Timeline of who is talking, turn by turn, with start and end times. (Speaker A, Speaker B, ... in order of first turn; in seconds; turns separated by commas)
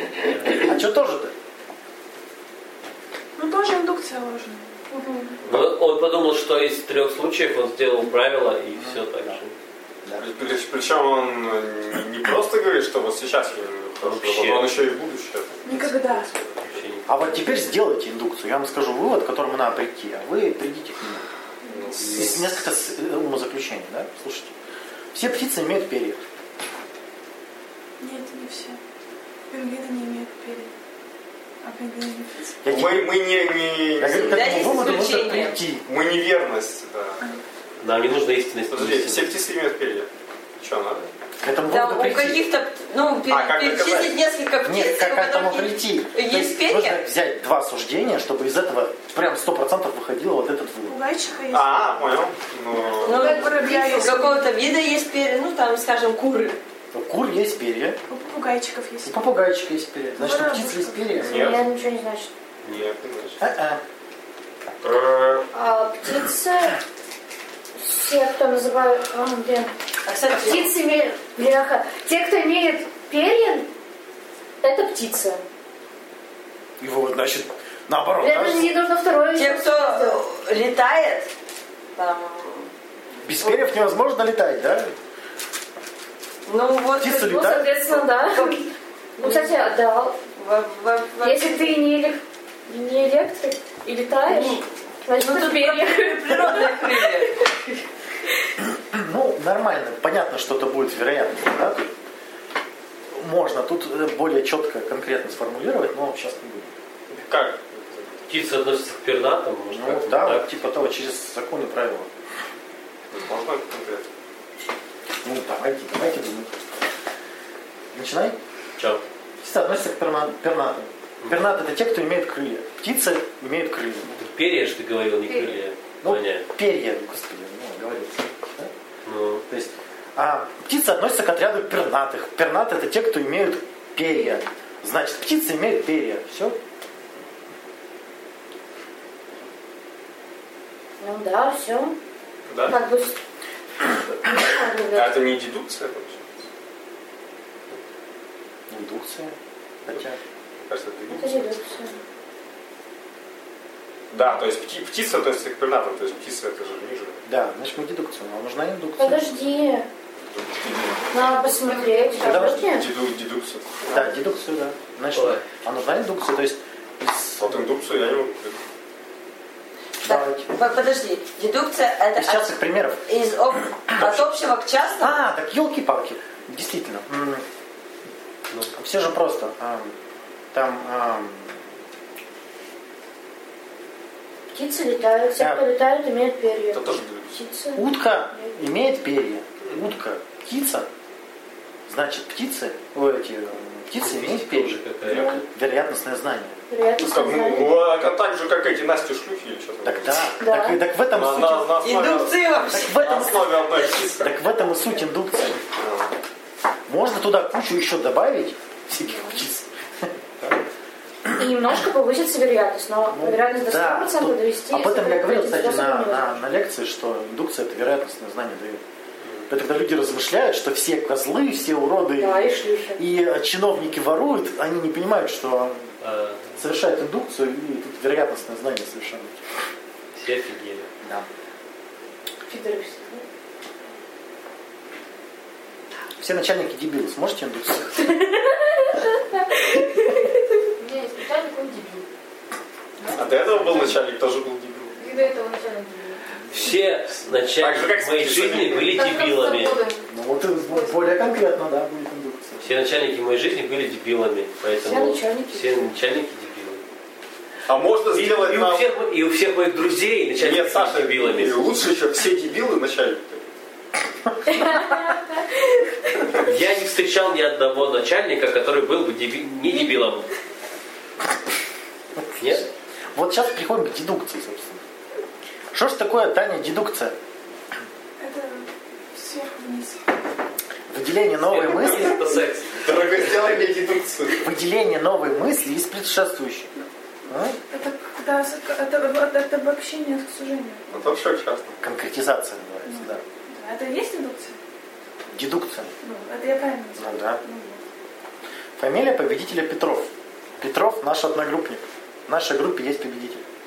Speaker A: 0.2-0.7, Speaker B: 0.4-1.3, Speaker C: 3.4-4.8, Speaker D: 4.9-5.3, Speaker A: 5.5-9.5, Speaker B: 8.8-9.4, Speaker E: 10.2-16.8, Speaker A: 14.0-14.7, Speaker C: 15.7-16.3, Speaker A: 16.6-17.8, Speaker B: 17.1-21.3, Speaker E: 21.6-22.4, Speaker A: 22.0-22.5, Speaker B: 22.1-24.5, Speaker B: 25.1-26.2, Speaker C: 28.0-28.8, Speaker C: 29.5-30.7, Speaker C: 31.6-32.6, Speaker B: 32.6-33.3, Speaker E: 32.7-34.5, Speaker B: 34.0-35.9, Speaker F: 34.1-35.6, Speaker E: 35.9-37.2, Speaker A: 37.8-39.3, Speaker E: 38.7-41.1, Speaker B: 41.4-42.4, Speaker F: 41.6-47.0, Speaker E: 43.3-44.1, Speaker B: 44.6-51.0, Speaker C: 50.9-52.2, Speaker E: 51.5-53.4, Speaker F: 53.0-56.6, Speaker C: 53.1-54.4, Speaker D: 53.7-54.1, Speaker B: 56.9-58.0, Speaker C: 58.1-59.3, Speaker B: 59.0-61.6, Speaker C: 60.1-61.4, Speaker E: 61.2-61.6, Speaker D: 61.2-62.3, Speaker A: 62.6-62.9, Speaker E: 62.6-63.4, Speaker B: 63.4-63.8, Speaker A: 64.8-65.4, Speaker D: 65.5-66.8, Speaker D: 67.8-69.7, Speaker F: 70.1-70.7, Speaker D: 70.3-73.7, Speaker D: 74.6-75.4, Speaker B: 76.8-78.8, Speaker D: 78.2-80.2, Speaker F: 79.3-81.3, Speaker F: 82.0-82.7, Speaker B: 83.2-84.9, Speaker F: 86.5-89.6, Speaker B: 87.0-87.7, Speaker D: 87.2-88.6, Speaker D: 89.2-90.2, Speaker F: 90.4-91.8, Speaker D: 91.2-97.2, Speaker F: 94.3-94.6, Speaker F: 95.2-97.5, Speaker B: 98.6-101.9, Speaker B: 103.1-106.7, Speaker E: 107.1-108.3, Speaker A: 108.3-111.0, Speaker B: 109.7-112.1, Speaker E: 113.1-114.1, Speaker B: 115.2-116.5, Speaker B: 117.9-118.4, Speaker A: 118.8-119.0, Speaker B: 119.4-124.2, Speaker A: 121.2-121.6, Speaker A: 124.2-126.5, Speaker B: 126.0-128.7, Speaker A: 129.1-129.4, Speaker B: 129.5-136.6, Speaker D: 134.1-134.4, Speaker D: 141.0-142.0, Speaker E: 142.5-142.8, Speaker D: 142.7-143.2, Speaker D: 144.3-145.2, Speaker E: 144.9-146.4, Speaker B: 148.7-150.2, Speaker E: 150.6-151.3, Speaker D: 151.1-151.9, Speaker E: 154.1-157.2, Speaker B: 157.3-159.3, Speaker D: 159.0-159.9, Speaker E: 160.3-161.3, Speaker D: 161.1-162.9, Speaker B: 162.2-162.7, Speaker E: 162.2-164.1, Speaker B: 163.9-167.6, Speaker A: 165.1-165.4, Speaker E: 167.4-168.7, Speaker B: 170.0-170.5, Speaker F: 170.0-175.2, Speaker B: 172.2-173.0, Speaker B: 174.0-174.2, Speaker B: 175.0-177.4, Speaker B: 178.8-179.9, Speaker B: 180.5-181.6, Speaker D: 184.5-188.6, Speaker B: 185.4-185.6, Speaker E: 186.7-187.4, Speaker B: 187.8-190.9, Speaker B: 191.9-194.8, Speaker A: 194.0-195.4, Speaker D: 195.1-195.4, Speaker E: 195.1-195.3, Speaker B: 195.4-196.6, Speaker D: 196.7-197.8, Speaker E: 197.0-200.4, Speaker B: 199.8-201.8, Speaker D: 200.4-200.8, Speaker E: 201.1-202.4, Speaker F: 201.8-203.0, Speaker B: 202.7-203.6, Speaker E: 203.0-204.3, Speaker B: 204.2-205.6, Speaker E: 205.8-206.1, Speaker B: 206.9-210.6, Speaker D: 209.1-209.4, Speaker D: 211.3-216.4, Speaker B: 213.1-218.8, Speaker E: 219.2-219.5, Speaker B: 219.5-225.9, Speaker D: 222.2-223.0, Speaker A: 226.0-226.6, Speaker B: 226.6-229.3, Speaker A: 230.2-230.9, Speaker D: 232.5-233.2, Speaker B: 236.2-238.1, Speaker D: 238.1-240.4, Speaker G: 240.8-242.0, Speaker G: 243.0-244.0, Speaker E: 243.1-244.9, Speaker G: 245.0-246.2, Speaker B: 246.4-247.0, Speaker A: 246.5-249.8, Speaker E: 247.6-249.0, Speaker G: 248.9-250.0, Speaker B: 250.1-252.8, Speaker G: 250.7-251.1, Speaker A: 252.6-256.8, Speaker D: 254.8-255.9, Speaker E: 257.7-258.9, Speaker A: 258.1-261.6, Speaker E: 260.4-263.5, Speaker D: 264.5-265.5, Speaker A: 266.4-270.3, Speaker B: 272.2-272.6, Speaker A: 272.4-272.7, Speaker B: 273.1-274.8, Speaker B: 275.7-277.1, Speaker C: 278.2-280.1, Speaker B: 280.9-282.2, Speaker A: 281.5-282.9, Speaker E: 282.7-284.5, Speaker B: 284.4-286.7, Speaker B: 287.3-287.6, Speaker C: 287.7-291.1, Speaker E: 290.9-291.9, Speaker B: 291.8-293.2, Speaker C: 292.9-294.6, Speaker B: 295.3-295.9, Speaker C: 296.0-297.8, Speaker B: 297.0-297.4, Speaker B: 298.8-303.4